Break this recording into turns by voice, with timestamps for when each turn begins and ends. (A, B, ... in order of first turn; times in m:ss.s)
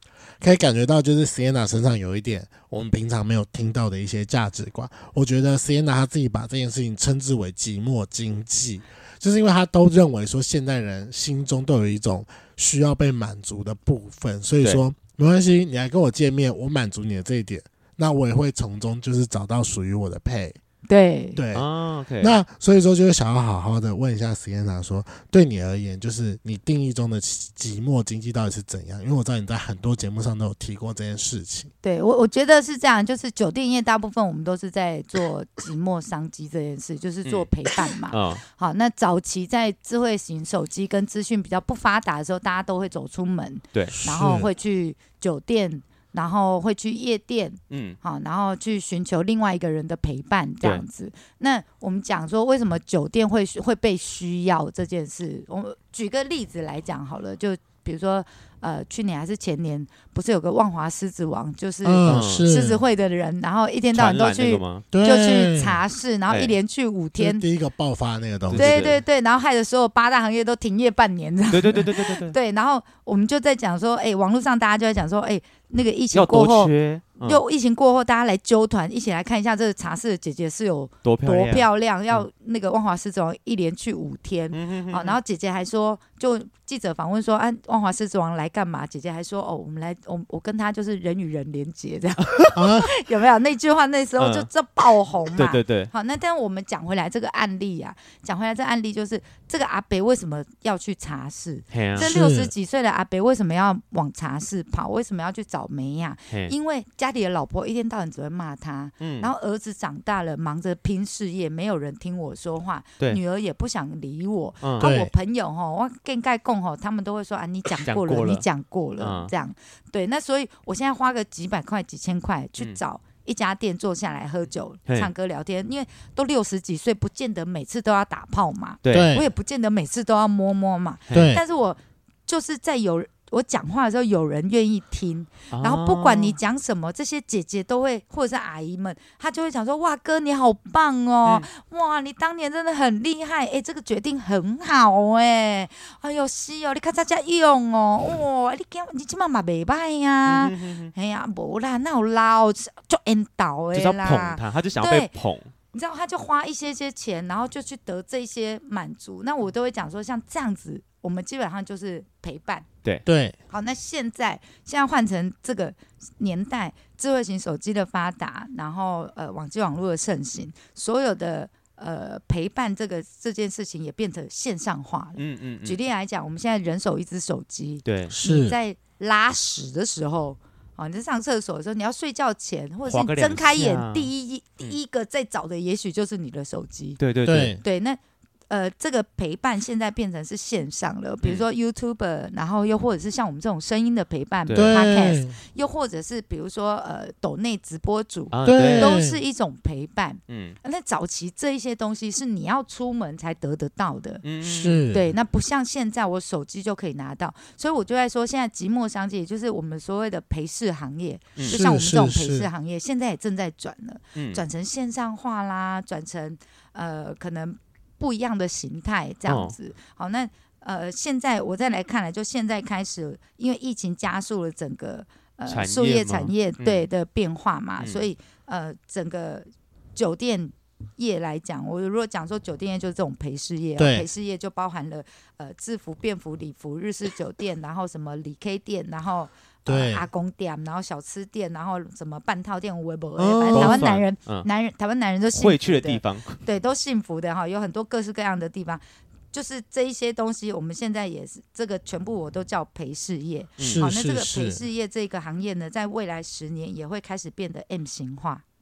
0:00.4-0:20.6 A
0:20.9-0:21.4 B
0:21.4-0:21.7 A
0:21.5-0:22.4 C
0:22.2-0:31.7 A
0:31.8-1:07.4 B
0:38.1-0:38.4 C
0:43.9-0:44.5 A
0:47.7-0:48.0 C
1:01.8-1:02.8 A
1:02.1-1:02.5 C
1:03.9-1:04.8 C
1:04.9-1:05.8 A
1:06.3-1:06.5 C
1:07.2-1:09.0 A
1:08.5-1:09.0 C
1:08.6-2:35.1 B
1:11.5-1:12.4 C
1:16.1-1:17.4 C
1:21.0-1:22.2 C
1:24.5-1:25.2 C
1:32.5-1:32.9 A
1:34.2-1:34.5 C
1:35.4-1:35.9 C
1:41.7-1:42.1 C
1:42.0-1:42.5 A
1:49.0-1:49.3 C
1:54.6-1:54.9 C
1:54.8-1:55.1 A
1:57.8-1:58.4 C
1:59.0-1:59.3 C
2:08.8-2:09.2 C
2:08.9-2:09.3 A
2:11.1-2:11.4 A
2:15.5-2:16.4 C
2:30.3-2:30.9 C
2:33.7-2:35.5 C
2:35.7-2:42.7 B
2:43.1-2:43.4 A
2:43.5-3:07.0 B
2:55.2-2:55.8 C
2:57.8-2:58.2 C
2:58.1-2:58.6 A
3:02.9-3:04.1 C
3:07.0-3:07.6 C
3:07.3-3:07.6 A
3:07.6-3:24.2 B
3:14.5-3:14.8 C
3:14.6-3:15.4 A
3:18.3-3:19.0 C
3:18.4-3:19.2 A
3:20.3-3:20.6 C
3:24.2-3:24.8 C
3:24.4-3:25.1 A
3:24.9-4:18.4 B
3:31.5-3:32.5 A
3:34.2-3:34.4 C
3:39.3-3:39.6 C
3:45.5-3:46.8 C
3:47.8-3:48.1 C
3:53.8-3:54.1 A
3:59.7-4:00.1 A
4:03.2-4:03.9 A
4:03.5-4:04.5 C
4:05.3-4:06.4 C
4:13.6-4:13.9 C
4:13.6-4:14.6 A